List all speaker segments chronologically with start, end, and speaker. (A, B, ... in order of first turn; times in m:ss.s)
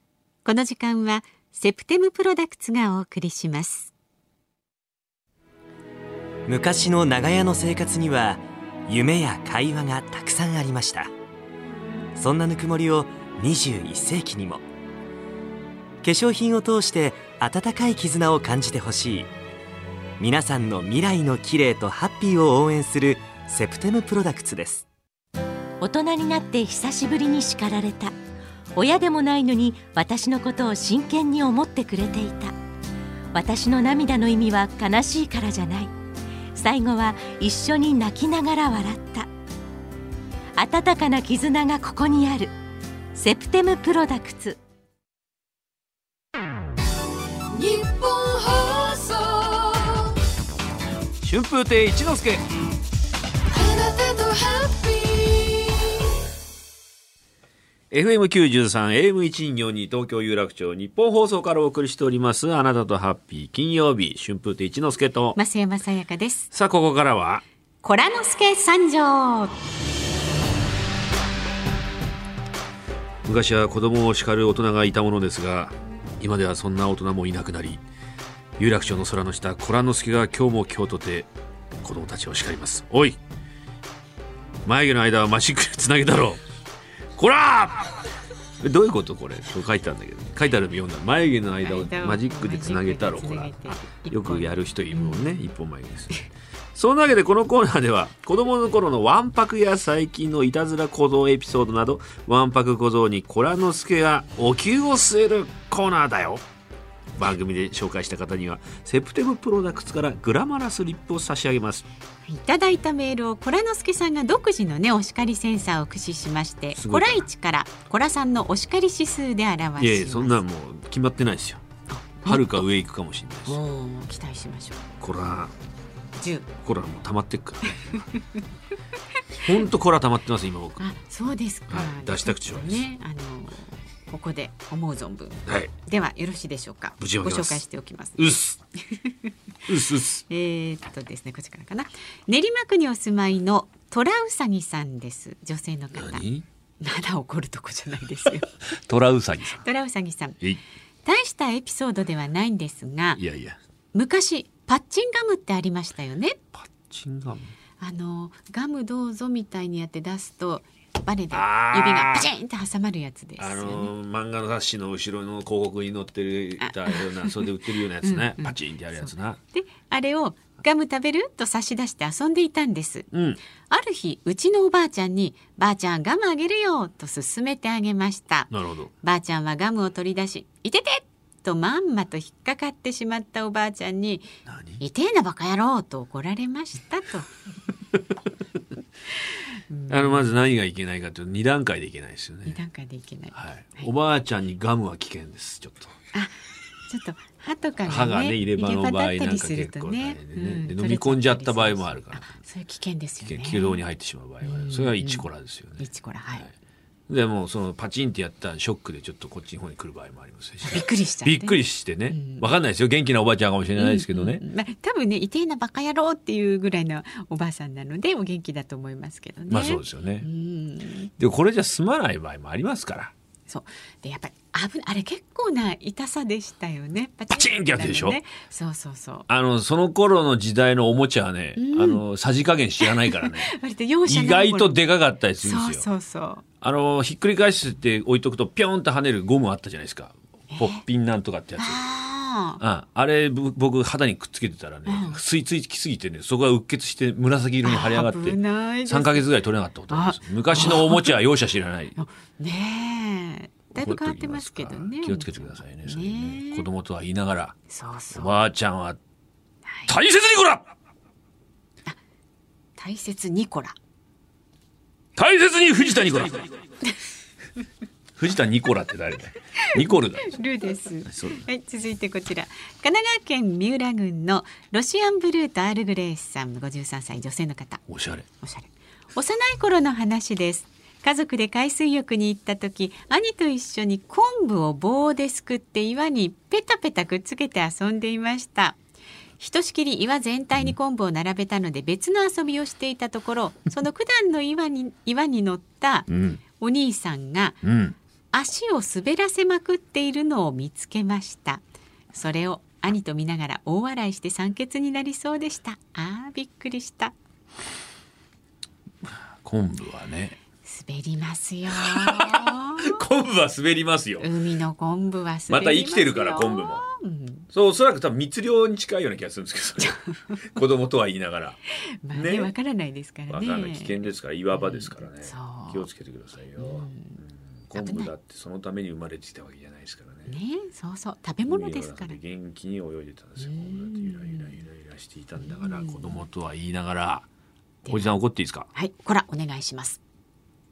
0:00.4-0:03.9 A
0:06.5-0:11.1 B
0:12.2-0:14.6 B
0:16.0-0:19.3 B
0:20.2-0:24.9 B
0:25.8-0:28.1 C
0:28.8-0:32.5 C
0:33.3-0:35.9 C
0:36.6-0:39.3 C
0:40.6-0:42.5 C
0:43.2-0:44.6 C
0:47.5-0:50.2 D
0:51.2-0:52.4 E
0:53.6-0:56.0 D
0:57.9-1:05.4 E
1:05.4-1:06.5 A
1:06.5-1:07.4 E
1:07.8-1:09.6 A
1:13.2-1:17.8 E
1:18.6-1:21.3 E
1:21.8-1:23.2 E
1:24.7-1:26.4 E
1:27.2-1:27.9 E
1:28.6-1:46.4 E
1:31.6-1:35.4 A
1:47.2-1:51.9 E
1:52.3-2:00.4 A
1:56.8-1:57.3 E
1:59.8-2:01.6 E
2:01.9-2:02.6 A
2:02.2-2:03.6 E
2:03.5-2:04.9 A
2:05.0-2:05.5 E
2:06.2-2:06.5 A
2:06.6-2:08.1 E
2:09.4-2:10.8 E
2:10.8-2:19.3 A
2:11.7-2:12.9 E
2:15.5-2:15.7 E
2:17.0-2:17.6 E
2:18.2-2:18.6 E
2:19.7-2:20.2 E
2:20.3-2:26.2 A
2:26.0-2:26.4 E
2:26.8-2:28.6 A
2:28.8-2:29.7 E
2:29.6-2:30.4 A
2:31.0-2:33.2 A
2:33.2-2:33.6 E
2:33.9-2:36.4 A
2:36.6-2:37.5 E
2:37.8-2:43.9 A
2:41.3-2:42.3 E
2:43.4-2:49.4 E
2:46.6-2:47.5 A
2:48.0-2:53.1 A
2:53.1-2:53.4 E
2:53.7-2:58.5 A
2:58.5-2:58.9 E
2:59.0-3:07.3 A
3:04.5-3:04.8 E
3:09.7-3:10.3 A
3:09.9-3:12.6 E
3:12.5-3:13.9 A
3:13.3-3:16.0 E
3:16.9-3:23.8 A
3:17.9-3:22.3 E
3:23.2-3:25.8 E
3:24.4-3:25.3 A
3:25.8-3:26.5 A
3:27.1-3:34.4 E
3:30.6-3:32.5 A
3:33.8-3:41.1 A
3:39.5-3:40.3 E
3:41.2-3:43.1 E
3:43.5-3:49.3 A
3:47.3-3:48.2 E
3:49.3-3:53.6 E
3:51.6-3:52.0 A
3:52.8-3:54.8 A
3:54.1-3:55.8 E
3:55.4-3:56.4 A
3:56.6-4:01.8 E
4:00.5-4:00.8 A
4:01.6-4:02.6 A
4:02.6-4:12.0 E
4:04.9-4:05.2 A
4:07.6-4:09.3 A
4:09.9-4:11.1 A
4:12.0-4:16.6 A
4:13.8-4:17.6 E
4:17.7-4:18.3 A
4:18.1-4:19.0 E
4:19.7-4:19.9 A
4:19.9-4:20.7 E
4:22.8-4:23.7 A
4:25.2-4:26.5 E
4:28.2-4:30.4 E
4:30.3-4:37.8 A
4:31.0-4:31.4 E
4:37.9-4:38.2 E
4:38.4-4:48.8 A
4:49.4-4:56.1 A
4:56.1-4:56.4 E
4:56.6-4:57.6 A
4:57.6-4:58.0 E
4:58.3-5:01.6 A
5:02.1-5:07.2 A
5:09.0-5:10.4 E
5:10.6-5:13.0 A
5:11.7-5:14.3 E
5:14.2-5:17.5 A
5:15.5-5:16.9 E
5:17.5-5:21.6 E
5:19.9-5:20.3 A
5:22.0-5:24.1 A
5:22.1-5:22.5 E
5:23.3-5:30.4 E
5:24.6-5:25.9 A
5:26.6-5:27.2 A
5:27.8-5:28.1 A
5:30.3-5:32.2 A
5:31.5-5:37.3 E
5:33.4-5:34.5 A
5:35.4-5:36.2 A
5:37.9-5:38.2 A
5:37.9-5:38.7 E
5:38.7-5:40.0 A